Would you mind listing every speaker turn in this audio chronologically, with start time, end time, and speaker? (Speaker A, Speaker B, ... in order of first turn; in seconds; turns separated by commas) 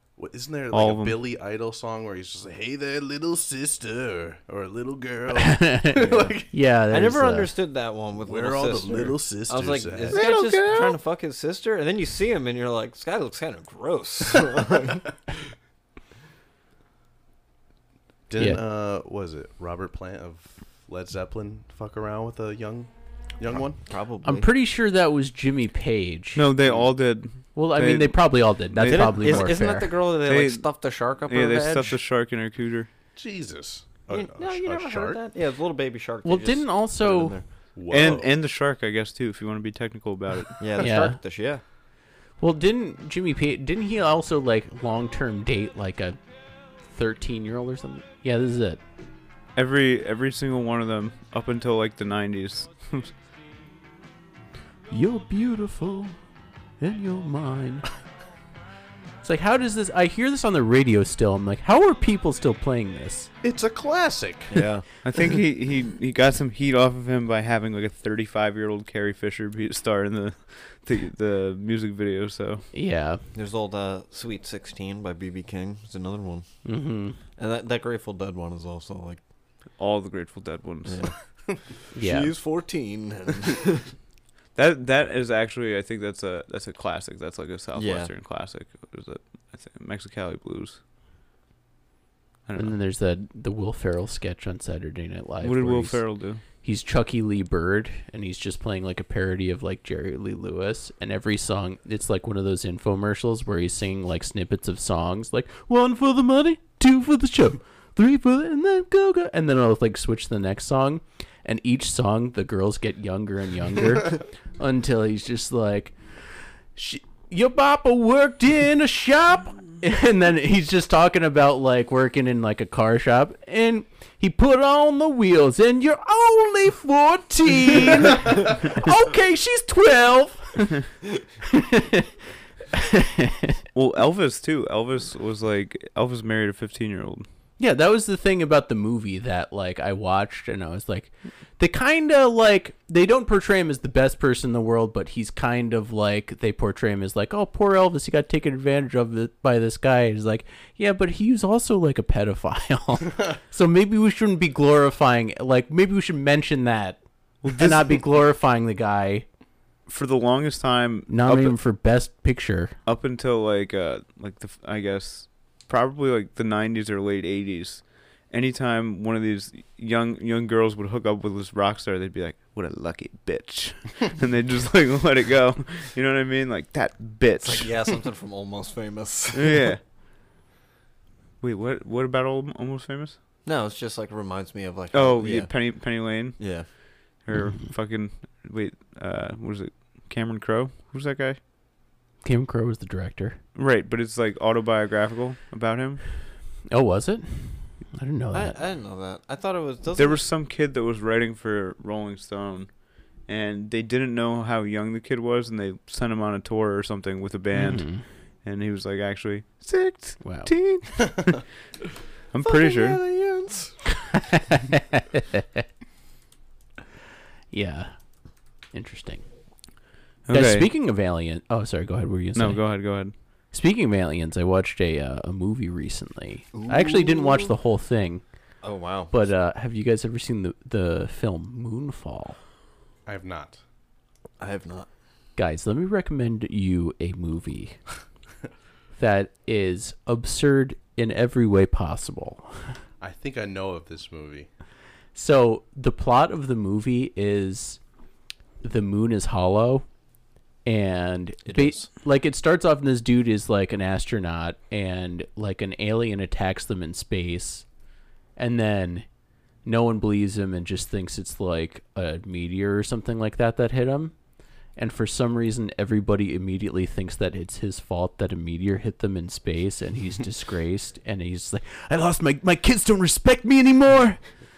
Speaker A: 0.1-6.5, Speaker B: 0.7-1.2, Speaker C: 5.3-7.5, Speaker D: 5.9-6.3, Speaker D: 6.9-15.3, Speaker A: 8.2-10.2, Speaker B: 10.1-11.0, Speaker A: 18.3-23.8, Speaker C: 18.4-18.6, Speaker D: 23.5-24.5, Speaker C: 24.2-26.4, Speaker B: 26.4-29.6, Speaker C: 27.5-29.9, Speaker D: 28.8-32.0, Speaker B: 30.2-32.9, Speaker A: 33.1-35.2, Speaker D: 34.1-37.5, Speaker C: 36.2-37.4, Speaker A: 37.8-38.3, Speaker B: 37.9-40.6, Speaker D: 40.6-41.6, Speaker C: 40.8-41.2, Speaker C: 42.4-46.2, Speaker C: 46.8-48.8, Speaker B: 49.5-53.1, Speaker C: 54.9-56.2, Speaker C: 56.8-57.9, Speaker C: 59.2-63.3, Speaker A: 63.4-64.6, Speaker D: 64.5-64.8, Speaker B: 65.0-72.7, Speaker C: 72.7-73.2, Speaker D: 73.3-76.5, Speaker C: 76.6-77.2, Speaker D: 77.4-79.2, Speaker B: 79.8-81.0, Speaker D: 80.8-81.1, Speaker D: 81.9-83.9, Speaker C: 81.9-82.3, Speaker B: 84.5-90.8, Speaker D: 87.7-88.1, Speaker B: 92.5-92.7, Speaker C: 92.5-96.0, Speaker B: 95.4-96.4, Speaker C: 96.6-116.0, Speaker C: 116.7-130.9, Speaker C: 131.4-132.1, Speaker C: 132.7-133.6, Speaker B: 133.7-137.2, Speaker C: 137.6-159.2, Speaker B: 157.4-157.9, Speaker B: 159.9-161.6, Speaker C: 161.1-162.8, Speaker B: 162.8-177.8, Speaker D: 177.4-179.7, Speaker B: 179.3-179.8, Speaker B: 181.4-183.2, Speaker D: 183.4-186.7, Speaker B: 184.9-186.7, Speaker B: 187.2-191.4, Speaker C: 187.3-187.6, Speaker C: 192.2-193.4, Speaker B: 193.5-196.0, Speaker C: 196.7-198.6, Speaker D: 198.3-200.2, Speaker B: 199.9-202.7, Speaker B: 203.2-211.4, Speaker C: 207.5-208.0, Speaker C: 210.2-210.5, Speaker B: 212.3-213.0, Speaker D: 212.4-213.8, Speaker C: 214.2-215.6, Speaker C: 217.5-217.9, Speaker C: 218.7-219.2, Speaker B: 220.3-220.7, Speaker C: 220.3-222.6, Speaker B: 222.3-223.1, Speaker C: 223.5-228.2, Speaker D: 226.5-227.5, Speaker D: 228.6-229.2, Speaker C: 229.1-232.4, Speaker A: 233.1-233.6, Speaker D: 234.4-234.9, Speaker C: 235.3-237.8, Speaker C: 238.9-242.8, Speaker A: 243.0-244.5, Speaker C: 245.1-247.8, Speaker C: 248.6-249.8, Speaker C: 250.6-257.6, Speaker D: 251.4-251.9, Speaker C: 258.4-259.1, Speaker C: 259.6-264.1, Speaker C: 264.8-274.2